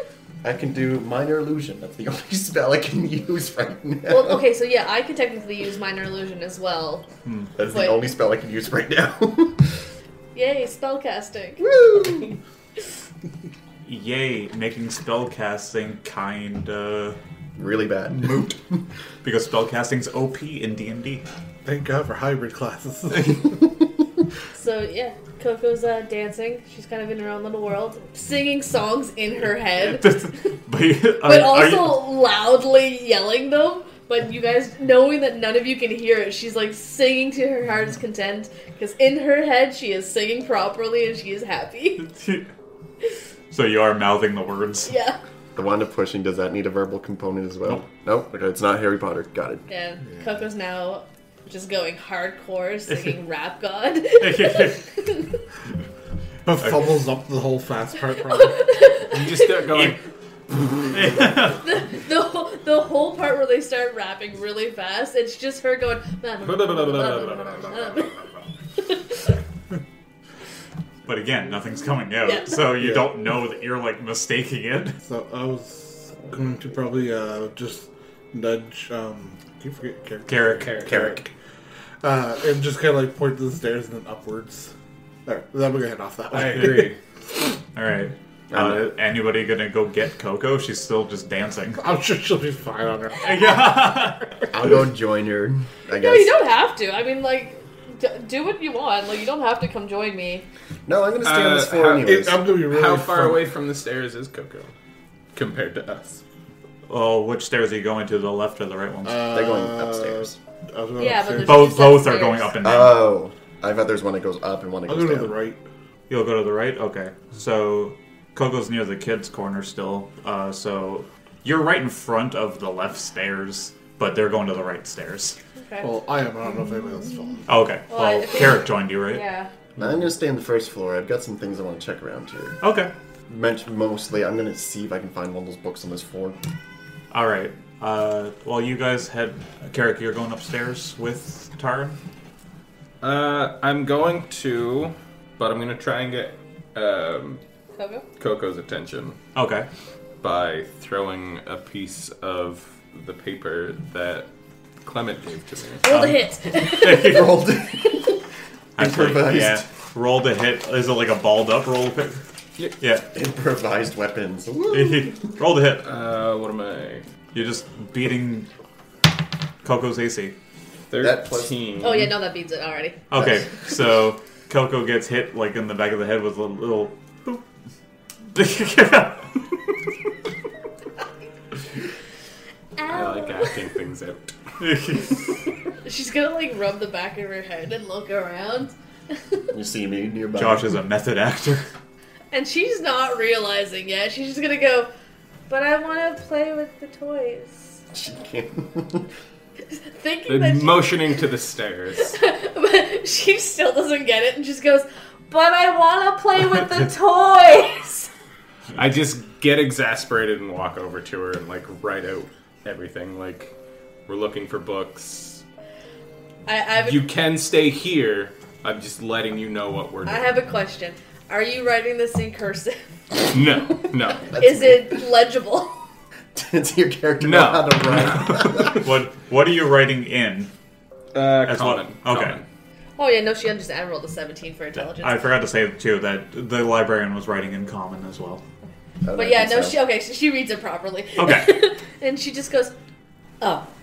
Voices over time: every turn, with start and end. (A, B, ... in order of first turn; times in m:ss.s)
0:00.4-0:04.4 A
0:04.1-0:07.1 B
0:07.2-0:07.5 C
0:07.6-0:09.7 A
0:07.7-0:08.0 B
0:10.3-0:11.6 B
0:11.6-0:12.3 A
0:13.8-0:17.2 C
0:17.6-0:18.8 A
0:19.2-0:21.2 C
0:21.6-0:23.6 D
0:24.5-0:30.5 B
0:29.8-0:32.1 C
0:31.2-0:42.0 B
0:42.0-0:42.5 C
0:43.5-0:44.9 C
0:44.9-0:45.2 B
0:45.6-0:49.7 A
0:49.7-0:55.4 B
0:54.2-0:54.8 C
0:56.4-0:58.8 D
0:58.3-0:59.7 B
0:59.1-1:00.0 E
1:00.9-1:01.6 C
1:01.6-1:08.2 B
1:06.4-1:08.3 E
1:08.8-1:09.3 B
1:11.0-1:15.0 C
1:12.2-1:12.6 B
1:15.0-1:21.3 D
1:20.2-1:20.9 C
1:20.4-1:21.2 E
1:22.0-1:24.7 D
1:25.2-1:26.9 D
1:26.3-1:27.0 E
1:26.5-1:26.9 C
1:27.7-1:31.8 C
1:28.5-1:28.8 A
1:31.8-1:33.3 D
1:33.2-1:34.5 C
1:34.5-1:36.3 A
1:35.9-1:40.4 B
1:40.9-1:42.4 A
1:41.2-1:44.7 E
1:42.0-1:43.5 D
1:45.3-1:46.2 E
1:46.9-1:49.4 C
1:49.0-1:51.8 D
1:49.3-1:50.4 A
1:51.0-1:52.6 B
1:51.4-1:53.0 C
1:52.6-1:55.3 A
1:54.9-1:55.6 D
1:56.1-2:05.4 C
2:05.6-2:05.9 B
2:05.8-2:07.4 D
2:07.5-2:09.2 C
2:07.9-2:09.5 B
2:09.8-2:12.6 A
2:12.6-2:12.9 C
2:13.3-2:16.4 A
2:17.1-2:22.0 C
2:23.0-2:27.4 E
2:27.8-2:28.0 B
2:28.2-2:29.2 E
2:29.3-2:29.7 C
2:30.2-2:34.3 E
2:34.8-2:35.8 E
2:35.8-2:37.4 B
2:35.9-2:37.4 C
2:36.9-2:38.2 A
2:38.8-2:42.2 C
2:38.8-2:39.6 A
2:42.8-2:43.1 C
2:43.1-2:45.2 A
2:44.7-2:45.9 C
2:45.8-2:47.0 E
2:47.3-2:48.5 C
2:49.6-2:50.3 C
2:50.9-2:52.2 E
2:51.0-2:51.6 A
2:51.8-2:53.0 B
2:53.1-2:57.4 C
2:58.3-2:59.4 C
3:02.8-3:03.6 B
3:02.9-3:04.3 E
3:04.6-3:05.2 C
3:05.8-3:09.4 B
3:09.5-3:10.7 A
3:10.4-3:11.6 C
3:12.3-3:14.9 B
3:15.5-3:17.8 B
3:17.9-3:19.1 A
3:19.7-3:21.0 B
3:20.3-3:22.2 E
3:22.1-3:28.1 B
3:28.7-3:33.5 E
3:34.1-3:35.4 E
3:36.4-3:37.1 B
3:36.8-3:40.4 E
3:40.0-3:42.8 B
3:43.2-3:44.4 E
3:44.2-3:45.7 B
3:44.3-3:45.0 A
3:46.3-3:48.8 A
3:47.2-3:48.8 E
3:48.5-3:50.5 C
3:51.1-3:52.4 E
3:51.4-3:52.4 C
3:53.0-3:55.2 B
3:55.0-3:58.4 C
3:59.0-3:59.8 A
3:59.1-4:02.7 B
4:01.2-4:01.6 C
4:03.4-4:03.7 B